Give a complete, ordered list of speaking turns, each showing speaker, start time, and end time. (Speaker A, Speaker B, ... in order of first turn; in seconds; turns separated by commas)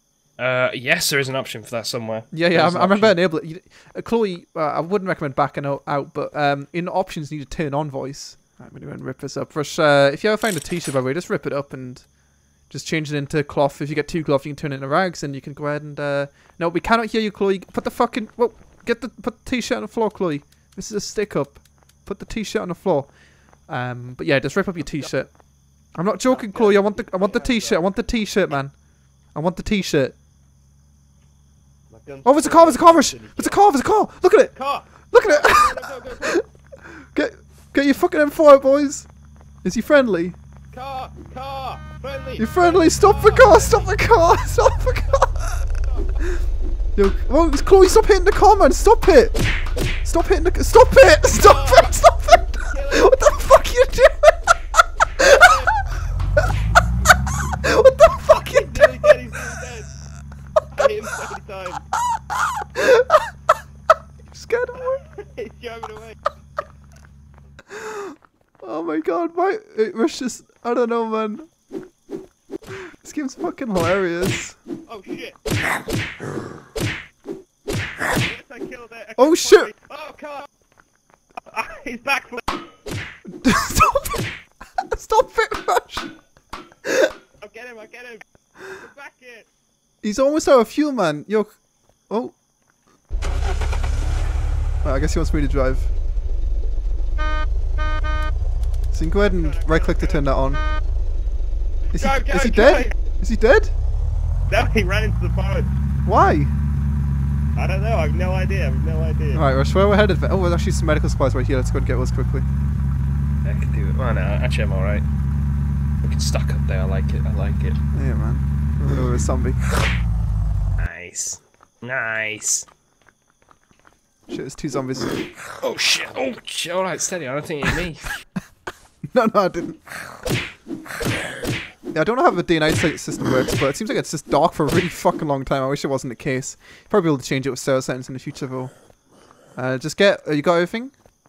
Speaker A: 0.4-3.2, Speaker B: 2.3-12.1, Speaker B: 12.7-23.1, Speaker B: 23.7-25.3, Speaker B: 26.0-28.8, Speaker C: 26.3-27.8, Speaker B: 29.3-30.2, Speaker C: 31.9-33.6, Speaker B: 32.2-36.4, Speaker C: 34.5-36.4, Speaker B: 37.0-39.1, Speaker B: 39.6-40.4, Speaker C: 40.7-44.0, Speaker B: 42.4-45.6, Speaker C: 45.0-46.2, Speaker B: 47.0-49.4, Speaker B: 50.0-54.4, Speaker C: 51.4-52.0, Speaker C: 52.7-53.2, Speaker B: 55.2-55.5, Speaker C: 55.3-55.8, Speaker B: 57.6-59.2, Speaker C: 58.3-59.9, Speaker C: 60.7-61.9, Speaker B: 62.6-63.2, Speaker B: 64.3-65.0, Speaker C: 64.8-66.2, Speaker B: 67.7-71.5, Speaker B: 72.9-74.6, Speaker C: 74.9-75.4, Speaker C: 78.2-80.5, Speaker B: 79.2-79.7, Speaker C: 81.4-82.4, Speaker B: 83.3-84.3, Speaker B: 84.8-86.1, Speaker C: 87.4-88.2, Speaker C: 88.8-89.5, Speaker B: 90.0-91.5, Speaker B: 92.1-92.3, Speaker B: 94.8-95.9, Speaker B: 98.9-100.6, Speaker C: 99.2-100.3, Speaker B: 101.9-103.7, Speaker C: 102.0-102.9, Speaker C: 104.5-105.7, Speaker B: 106.1-106.5, Speaker C: 107.6-109.4, Speaker B: 109.3-112.5, Speaker A: 113.4-115.0, Speaker A: 116.0-117.8, Speaker B: 117.9-119.6, Speaker A: 120.8-122.7, Speaker B: 124.3-125.2, Speaker A: 125.6-128.1, Speaker B: 129.1-129.8, Speaker B: 131.9-138.7, Speaker B: 139.6-140.9